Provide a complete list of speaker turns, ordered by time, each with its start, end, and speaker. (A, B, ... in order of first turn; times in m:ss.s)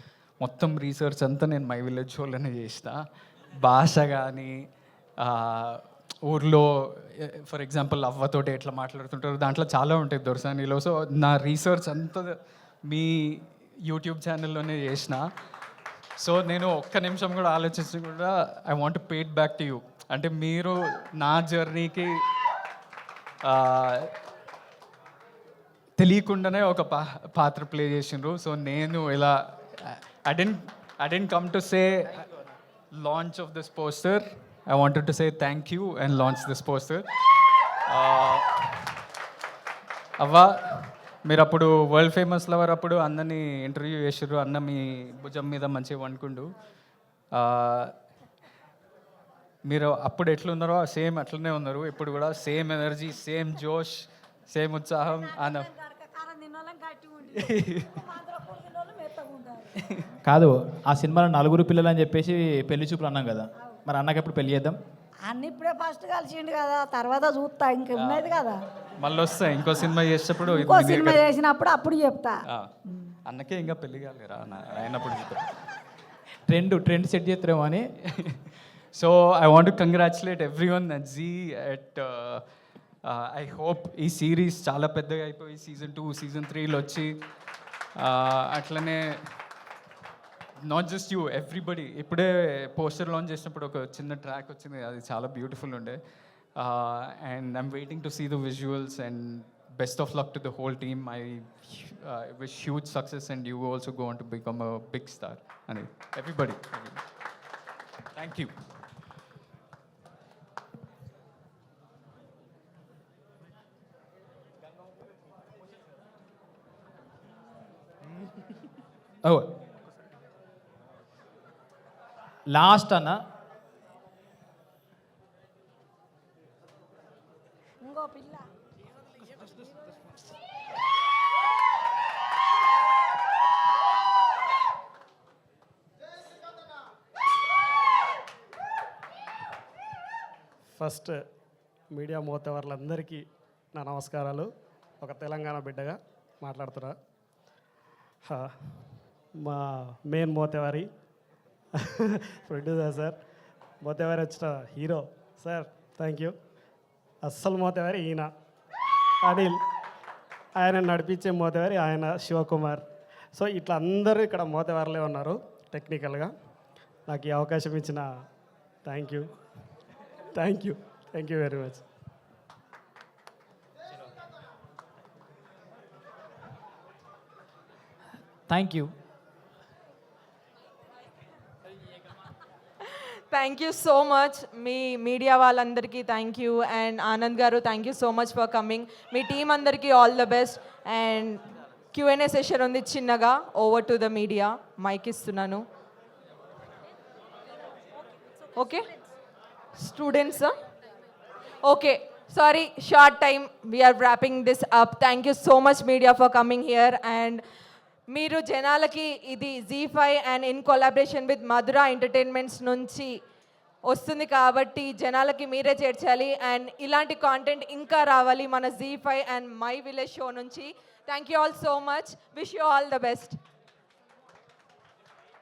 0:00.4-0:03.0 A
0:03.6-0:04.5 A
0:05.2-0:12.3 A
0:12.9-0:15.3 A
0:16.2-0:22.1 A
0:23.4-0:24.1 A
0:26.0-0:32.3 A
0:33.0-0:37.0 A
0:37.9-0:38.8 A
0:40.2-0:46.6 A
0:47.3-0:47.9 A
0:49.6-0:55.7 A
0:55.3-0:59.8 B
0:57.4-0:58.0 A
1:00.2-1:04.8 C
1:05.2-1:08.6 B
1:07.9-1:11.3 A
1:10.5-1:12.4 B
1:13.3-1:15.5 A
1:16.5-1:17.9 C
1:18.1-1:18.4 A
1:19.0-1:22.4 A
1:23.1-1:27.1 A
1:28.0-1:29.2 A
1:30.7-1:36.0 A
1:36.6-1:47.0 A
1:48.2-1:48.5 A
1:59.2-1:59.6 C
2:02.5-2:03.2 C
2:07.8-2:08.5 B
2:20.8-2:21.2 D
2:21.9-2:27.0 D
2:28.3-2:28.6 D
2:29.4-2:30.9 D
2:31.8-2:33.2 D
2:33.8-2:36.3 D
2:37.2-2:38.3 D
2:39.2-2:39.6 D
2:40.6-2:46.3 D
2:47.1-2:48.1 D
2:48.8-2:49.3 D
2:50.3-2:51.8 D
2:58.5-2:58.9 C
3:02.8-3:15.7 E
3:18.5-3:18.9 E
3:19.8-3:20.6 E
3:21.6-3:27.4 E
3:28.1-3:33.1 E
3:33.9-3:43.4 E